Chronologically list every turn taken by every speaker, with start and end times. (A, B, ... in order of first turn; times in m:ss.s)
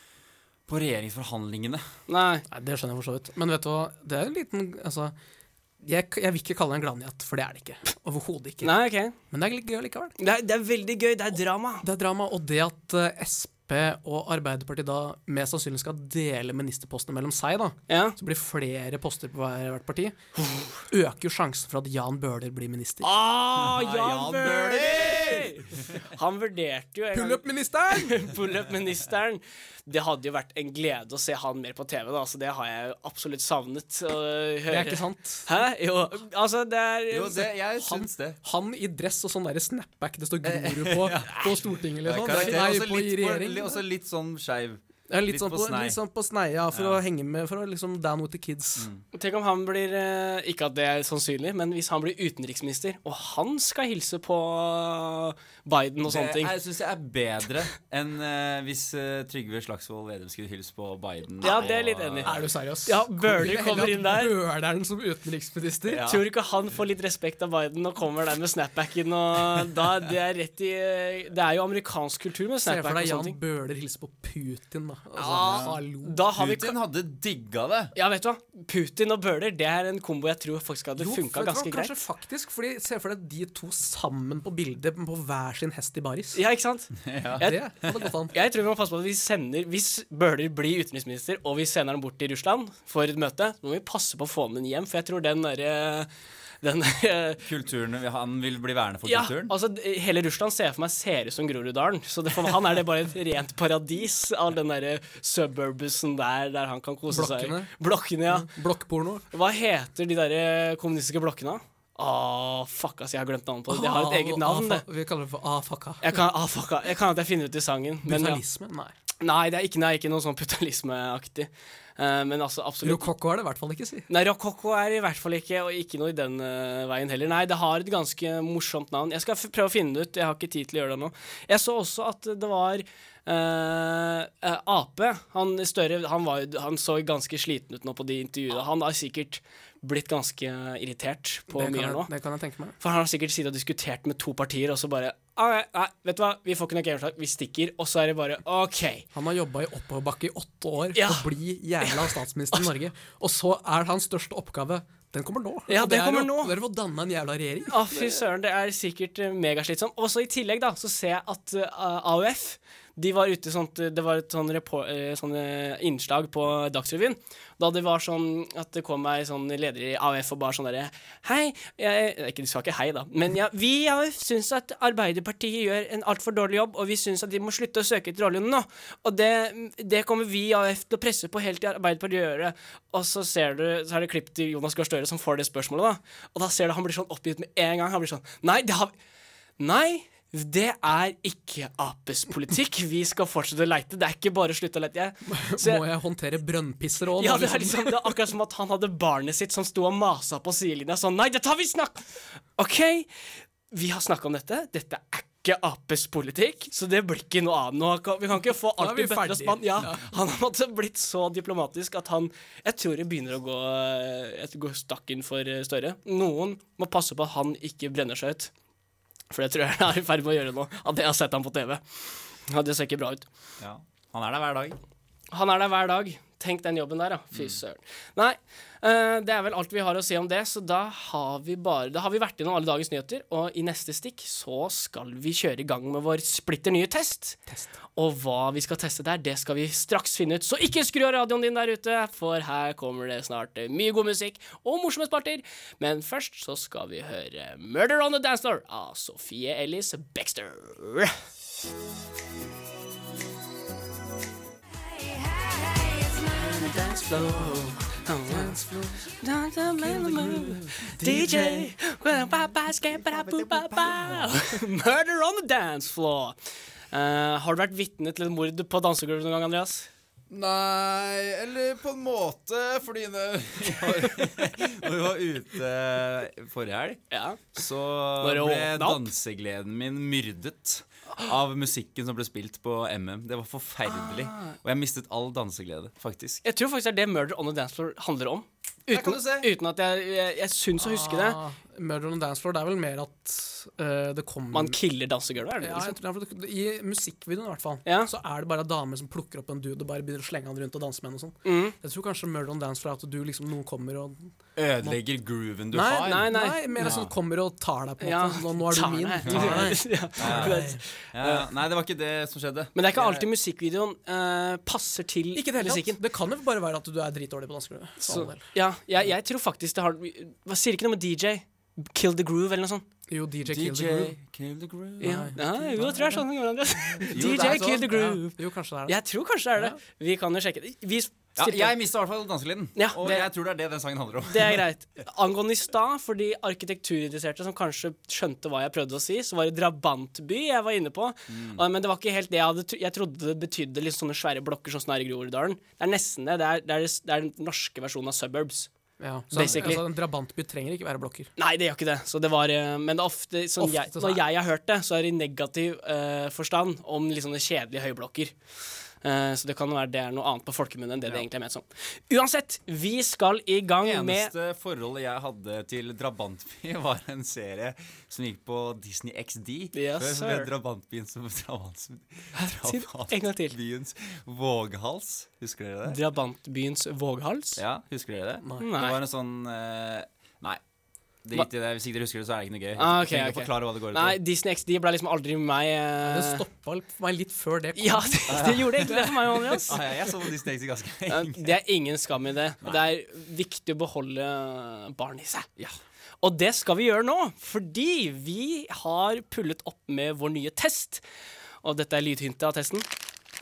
0:00.7-0:01.8 A
0:02.1-0:02.4 B
0:02.5-0:05.1 C
0:05.8-0:08.7 C
0:08.6-0:09.1 B
0:09.3-0:10.1 C
0:10.2-0:11.8 B
0:11.8-0:20.2 C
0:17.9-0:18.1 B
0:20.4-0:20.8 B
0:20.9-0:23.1 C
0:23.0-0:37.5 B
0:23.6-0:26.1 A
0:27.1-0:28.3 C
0:34.7-0:35.6 C
0:37.1-0:38.4 A
0:37.8-0:43.8 C
0:40.4-0:46.0 A
0:45.1-0:48.9 C
0:46.7-0:47.0 A
0:48.8-0:49.0 A
0:49.1-0:56.5 B
0:56.0-1:02.4 A
1:01.4-1:04.3 B
1:02.2-1:06.1 C
1:05.9-1:06.2 A
1:06.0-1:13.3 B
1:12.6-1:16.2 C
1:15.2-1:16.8 B
1:15.3-1:15.8 A
1:16.3-1:17.9 A
1:17.9-1:21.9 B
1:21.0-1:26.4 C
1:26.3-1:27.6 B
1:27.0-1:27.9 A
1:27.4-1:28.4 C
1:28.3-1:36.1 B
1:36.6-1:37.4 B
1:37.4-1:39.5 A
1:39.0-1:48.5 B
1:47.1-1:47.7 C
1:48.3-1:49.2 C
1:49.3-1:54.8 B
1:53.7-1:56.2 C
1:56.0-1:58.4 B
1:58.0-1:58.9 C
1:59.2-2:03.1 B
2:02.8-2:04.1 C
2:04.1-2:22.1 B
2:21.5-2:22.8 C
2:22.8-2:29.0 B
2:29.1-2:38.2 C
2:30.9-2:31.3 B
2:31.8-2:32.7 B
2:35.7-2:36.6 B
2:37.7-3:08.9 B
3:09.6-3:15.8 B
3:15.3-3:18.2 C
3:17.2-3:22.0 B
3:22.6-3:23.1 B
3:23.7-3:38.5 B
3:28.8-3:30.1 C
3:39.3-3:43.2 B
3:43.6-3:44.8 A
3:45.3-3:57.4 B
3:58.0-4:11.2 B
4:15.1-4:26.4 B
4:18.3-4:18.9 C
4:19.8-4:21.5 C
4:21.0-4:21.6 A
4:23.0-4:24.4 A
4:26.9-4:29.9 B
4:30.3-4:37.0 A
4:37.1-4:37.4 B
4:37.5-4:46.4 A
4:38.2-4:39.1 B
4:44.0-4:44.5 B
4:46.4-4:51.4 B
4:48.9-4:49.5 A
4:50.8-4:54.8 C
4:54.5-4:56.0 B
4:55.6-5:05.0 C
4:57.8-4:58.1 B
5:01.4-5:01.7 B
5:04.6-5:07.1 A
5:05.7-5:10.8 C
5:06.0-5:07.0 B
5:08.0-5:11.4 B
5:09.2-5:13.3 A
5:12.7-5:16.0 B
5:15.4-5:18.4 C
5:18.0-5:22.8 B
5:23.1-5:24.2 C
5:23.4-5:25.3 A
5:25.0-5:26.2 C
5:25.0-5:31.7 B
5:26.9-5:29.0 C
5:27.1-5:27.9 A
5:31.4-5:34.6 A
5:32.8-5:33.3 B
5:34.3-5:48.7 B
5:41.3-5:41.6 A
5:49.0-5:51.3 C
5:49.3-5:49.8 B
5:49.4-5:49.7 A
5:51.4-5:58.3 B
5:53.6-5:54.2 C
5:59.0-6:04.3 B
6:03.8-6:16.0 A
6:09.7-6:10.5 B
6:12.3-6:13.6 B
6:15.8-6:17.6 B
6:17.6-6:20.6 A
6:18.4-6:18.7 C
6:18.6-6:19.0 B
6:21.2-6:24.2 A
6:22.8-6:26.4 B
6:26.0-6:29.7 C
6:27.8-6:29.8 B
6:28.3-6:29.0 A
6:29.6-6:31.5 A
6:31.1-6:35.5 B
6:36.2-6:41.0 B
6:41.6-6:42.9 B